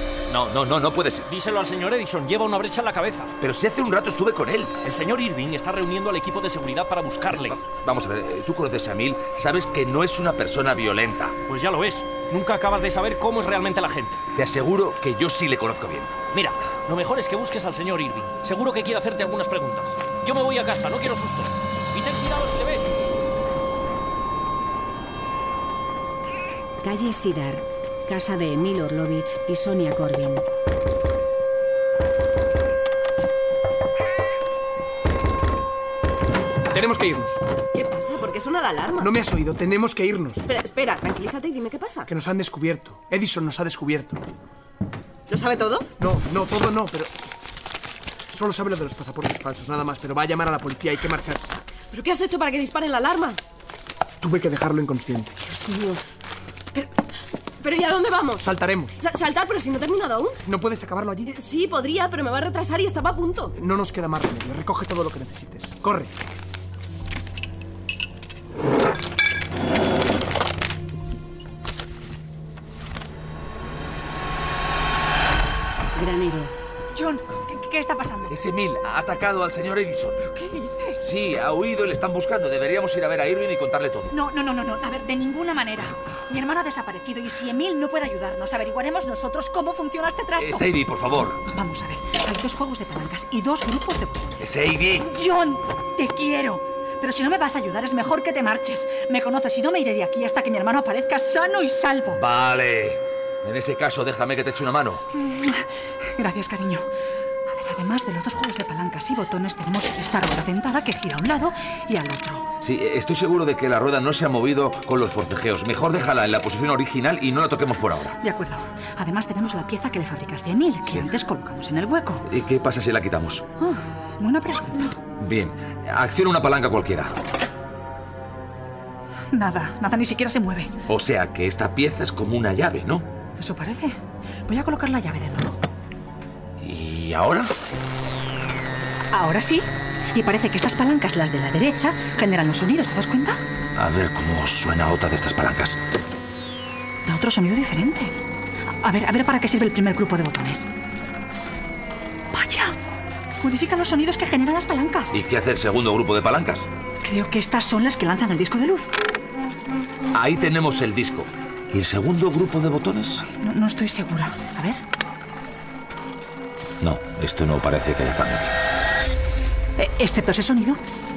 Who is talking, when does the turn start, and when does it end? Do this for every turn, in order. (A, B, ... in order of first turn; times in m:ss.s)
0:00.3-0:01.3 A
0:01.3-0:03.3 B
0:03.4-0:04.7 A
0:04.8-0:07.5 B
0:07.3-0:11.4 A
0:11.5-0:14.2 B
0:14.4-0:16.2 A
0:16.3-0:22.9 B
0:26.8-0:30.4 C
0:36.7-0:37.4 D
0:37.9-0:38.9 E
0:39.0-0:40.5 D
0:40.5-0:42.0 E
0:42.1-0:44.2 D
0:46.0-0:47.1 D
0:48.3-0:51.5 D
0:51.9-0:53.2 E
0:54.2-0:55.3 D
0:57.6-0:58.3 E
0:58.4-0:59.0 D
0:59.2-1:00.3 E
1:00.4-1:01.3 D
1:02.1-1:03.4 E
1:03.5-1:06.1 D
1:16.0-1:16.5 C
1:16.9-1:18.5 F
1:18.3-1:20.3 A
1:20.3-1:21.0 F
1:21.0-1:24.1 A
1:24.1-1:30.7 F
1:30.4-1:31.4 A
1:31.5-1:42.2 F
1:34.4-1:35.1 A
1:42.1-1:45.0 A
1:45.2-1:46.9 F
1:47.5-1:52.5 F
1:52.6-1:58.2 A
1:58.2-2:02.2 F
2:00.8-2:01.1 A
2:02.3-2:03.4 A
2:03.6-2:05.0 F
2:05.2-2:07.2 A
2:09.3-2:10.7 F
2:10.9-2:13.1 A
2:13.4-2:14.0 F
2:14.5-2:15.6 F
2:16.6-2:17.5 A
2:19.1-2:23.4 F
2:23.8-2:25.8 A
2:27.0-2:28.2 F
2:28.8-2:30.7 F
2:32.3-2:32.8 F
2:33.4-2:35.2 F
2:35.1-2:36.7 A
2:37.0-2:38.9 F
2:40.1-2:43.3 A
2:43.2-2:44.8 F
2:46.8-2:48.6 A
2:49.8-2:50.8 F